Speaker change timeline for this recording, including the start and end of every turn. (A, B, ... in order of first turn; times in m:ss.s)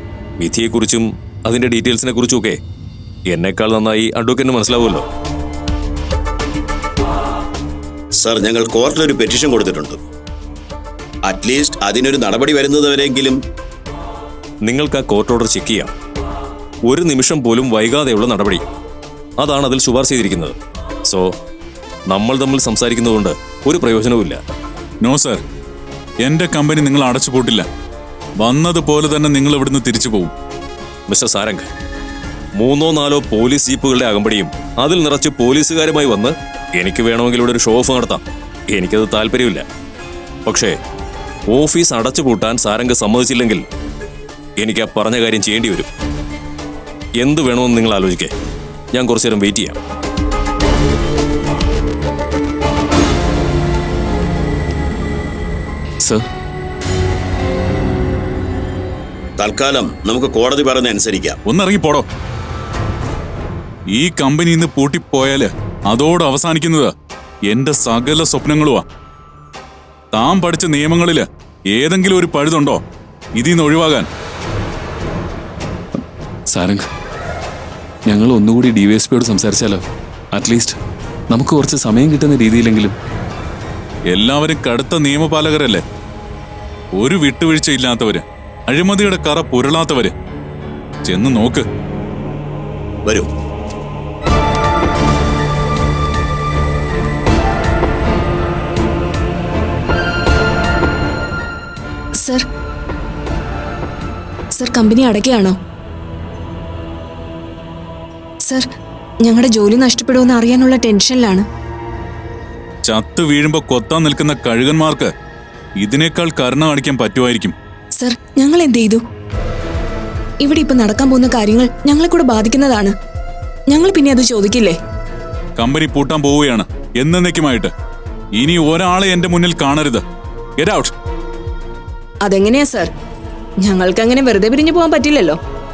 0:00.4-0:02.6 A
0:03.3-0:05.0 A
0:08.2-0:10.0 B
0:11.2-0:13.4 B
0:14.6-0:15.9 A
0:16.9-0:18.6 A
0:19.4-0:20.6 A
0:22.1-0:24.4 A
0:25.0-0:25.4 C
0:26.2-0:27.6 C
0:28.4-0:30.3 C
0:31.1-0:31.7 A
0:32.6-0:39.6 A
0:40.5-0:40.7 A
0:41.5-0:43.6 A
0:44.6-0:45.9 A
0:47.2-0:48.3 A
0:48.9-0:49.8 A
0:59.4-1:01.4 B
1:01.5-1:02.1 C
1:04.0-1:06.9 C
1:07.5-1:08.8 C
1:10.1-1:12.8 C
1:13.4-1:14.1 C
1:16.5-1:16.8 D
1:18.1-1:20.8 D
1:21.3-1:22.9 D
1:24.1-1:25.8 C
1:27.0-1:30.1 C
1:31.1-1:31.6 C
1:42.2-1:42.4 E
1:44.5-1:45.6 E
1:48.4-1:48.7 E
1:49.2-1:51.4 E
1:52.9-1:55.1 C
1:55.8-1:57.6 C
1:58.0-1:59.0 E
2:00.4-2:03.0 E
2:03.7-2:04.8 E
2:05.6-2:07.7 C
2:08.4-2:10.0 C
2:10.6-2:10.9 C
2:12.2-2:12.9 E
2:13.6-2:15.4 E